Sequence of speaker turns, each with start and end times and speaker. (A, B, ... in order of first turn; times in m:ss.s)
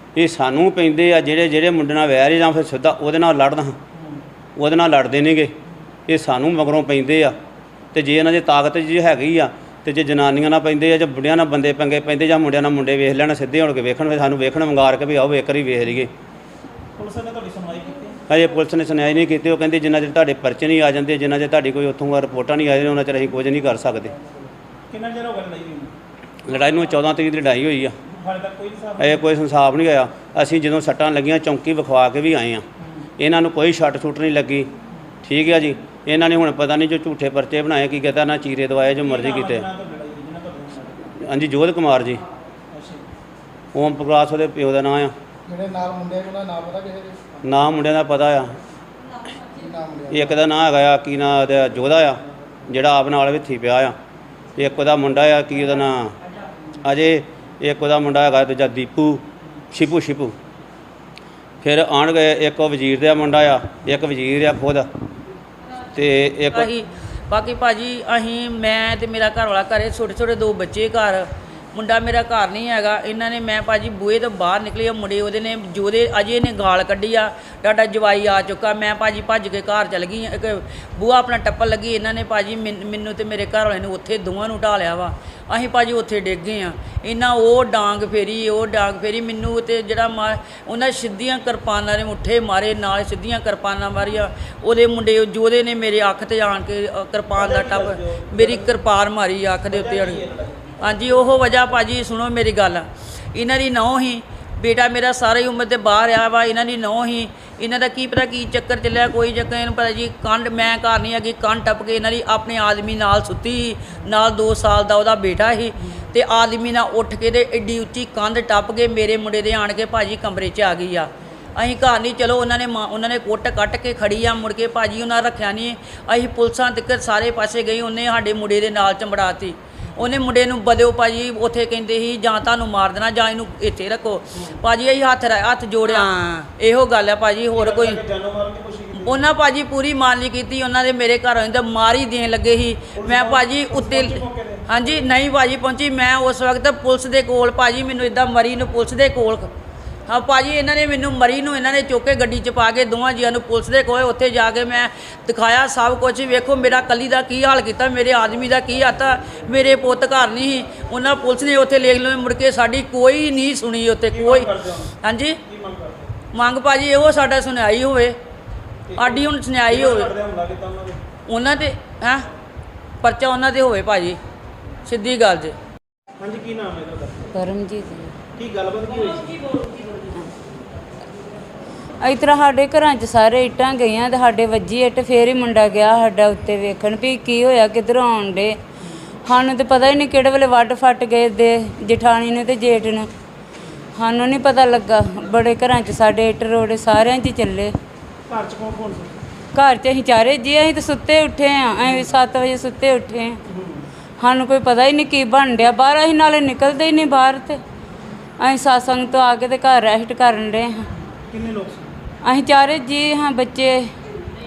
0:00.2-0:03.8 A
0:03.9-0:04.2 B
0:04.6-0:05.5 A
0:06.1-0:07.4 A
0:07.9-0:16.1 A
0:17.0-0:18.2 B
0:18.3-0:24.2 A
0:24.9-0:25.9 B
0:26.4-0:28.0 A
0:28.1-0:29.2 B
0:29.0-0:32.6 A
0:33.2-0:34.7 A
0:35.2-0:39.7 A
0:39.0-0:41.1 B
0:41.2-0:42.2 A
0:42.7-0:43.0 B
0:43.7-0:45.1 A
0:45.5-0:47.2 C
0:47.4-0:48.6 A
0:49.6-0:50.1 C
0:50.1-0:54.0 A
0:54.6-0:56.2 A
0:56.8-1:00.4 A
1:01.6-1:04.9 A
1:05.9-1:06.7 A
1:06.5-1:40.2 D
1:37.4-1:38.7 B
1:39.7-1:40.7 B
1:40.8-2:18.0 D
2:17.5-2:19.2 B
2:19.0-2:29.5 D
2:23.0-2:24.7 B
2:30.1-2:45.4 D
2:44.1-2:46.2 B
2:46.3-2:48.2 D
2:48.9-2:51.0 B
2:49.0-2:50.1 D
2:51.3-2:52.3 D
2:53.0-2:54.2 D
2:54.9-2:55.6 D
2:56.2-2:57.3 B
2:57.3-2:58.1 E
2:58.4-2:59.5 B
2:59.6-3:00.0 D
3:02.0-3:08.6 E
3:09.2-3:13.1 E
3:14.0-3:17.7 E
3:18.3-3:19.2 B
3:19.6-3:23.4 E
3:23.5-3:23.9 B
3:24.2-3:27.6 E
3:28.4-3:30.9 E
3:31.3-3:31.9 B
3:32.2-3:33.9 E